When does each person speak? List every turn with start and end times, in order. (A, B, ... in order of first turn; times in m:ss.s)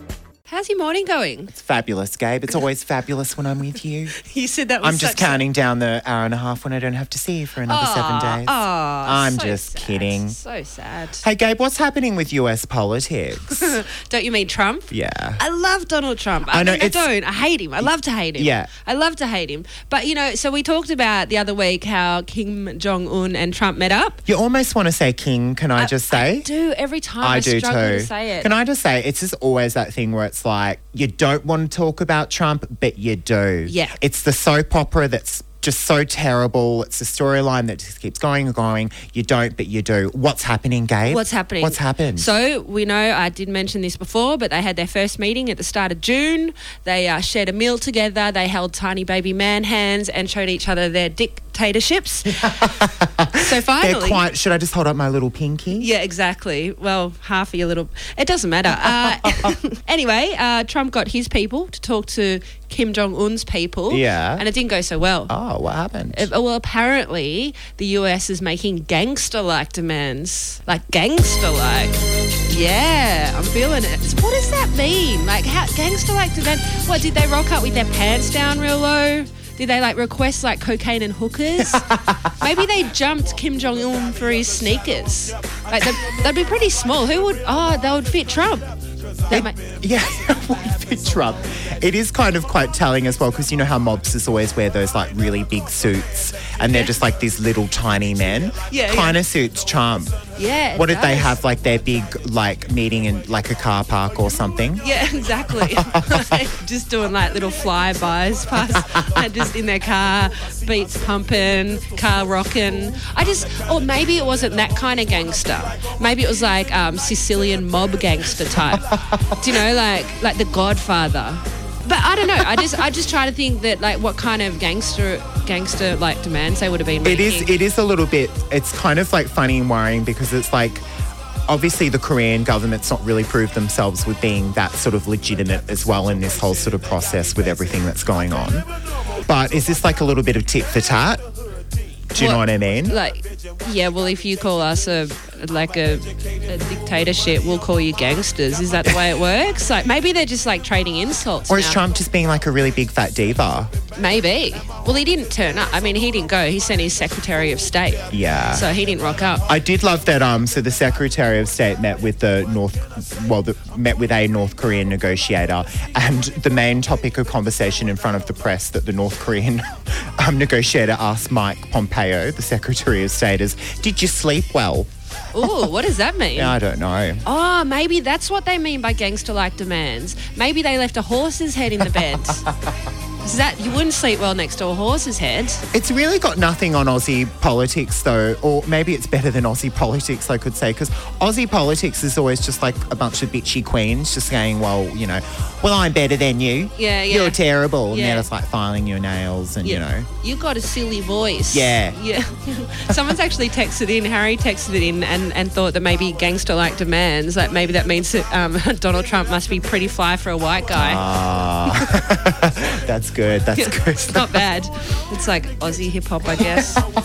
0:00.5-0:01.5 A
0:01.5-0:04.1 B
0:04.2-0:05.4 A
0:04.8-0:10.4 B
0:07.6-0:11.2 A
0:11.2-0:13.8 B
0:13.5-0:24.2 A
0:14.9-0:15.4 B
0:16.5-0:17.1 B
0:17.8-0:18.7 B
0:24.2-0:26.5 B
0:25.8-0:28.5 A
0:27.2-0:42.3 B
0:33.6-0:34.0 A
0:41.0-0:52.8 A
0:52.3-0:55.9 B
0:53.3-0:54.2 A
0:55.8-1:05.3 A
0:58.7-0:59.5 B
1:03.9-1:04.4 B
1:05.3-1:06.3 B
1:06.1-1:21.8 A
1:21.6-1:22.6 B
1:22.4-1:28.7 A
1:29.3-1:29.6 A
1:29.3-1:40.1 B
1:36.7-1:37.0 A
1:38.7-1:39.2 A
1:40.4-1:41.4 A
1:40.7-1:44.8 B
1:44.8-2:07.6 A
1:45.7-1:46.2 B
1:58.7-1:59.6 B
2:02.4-2:02.7 B
2:07.0-2:10.8 B
2:11.5-2:18.7 B
2:19.2-2:21.2 B
2:22.1-2:23.0 B
2:22.2-2:31.8 A
2:31.5-2:33.7 B
2:33.9-2:39.4 A
2:38.1-2:38.7 B
2:39.4-2:54.9 B
2:55.3-2:56.6 A
2:56.4-2:57.2 B
2:57.2-3:02.4 A
3:01.8-3:02.5 B
3:03.2-3:05.6 A
3:05.7-3:20.1 B
3:16.8-3:18.3 A
3:19.6-3:31.0 A
3:21.5-3:22.0 B
3:30.7-3:34.4 B
3:33.5-3:36.8 A
3:36.4-3:36.6 B